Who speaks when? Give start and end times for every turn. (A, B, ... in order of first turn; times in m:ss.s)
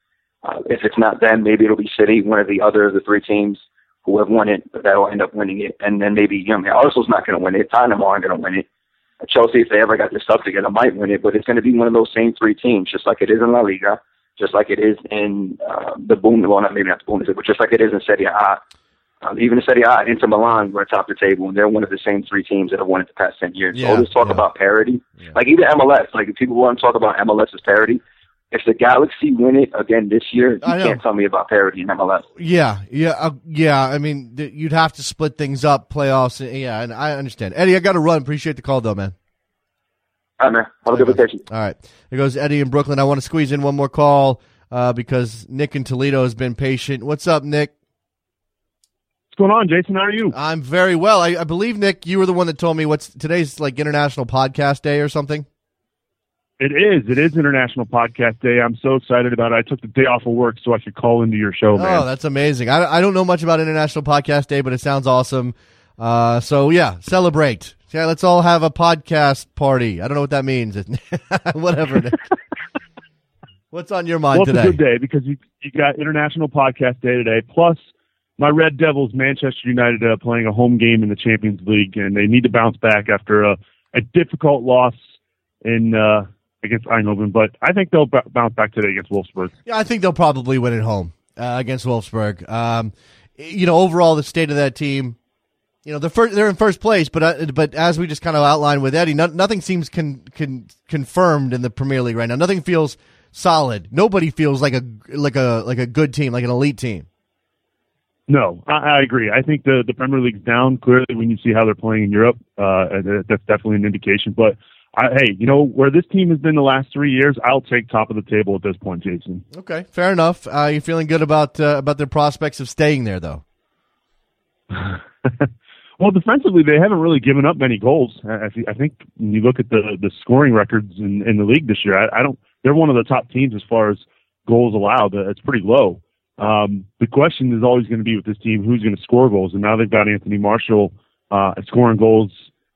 0:00.4-0:08.6 A
0:09.2-0:18.6 A
0:19.2-0:28.0 A
0:23.7-0:24.4 B
0:28.5-0:32.2 A
0:30.6-0:31.0 B
0:32.4-0:39.1 B
0:40.4-0:41.4 A
0:40.9-0:47.7 B
0:49.3-0:50.3 C
0:50.3-0:55.4 B
0:56.6-1:02.0 C
1:01.7-1:12.2 B
1:13.7-1:14.8 B
1:14.3-1:17.8 C
1:18.4-1:25.0 C
1:25.6-1:29.5 C
1:29.6-1:35.2 B
1:35.8-1:47.0 B
1:48.3-1:59.4 C
1:59.5-2:03.4 B
2:04.7-2:05.5 C
2:06.0-2:22.3 C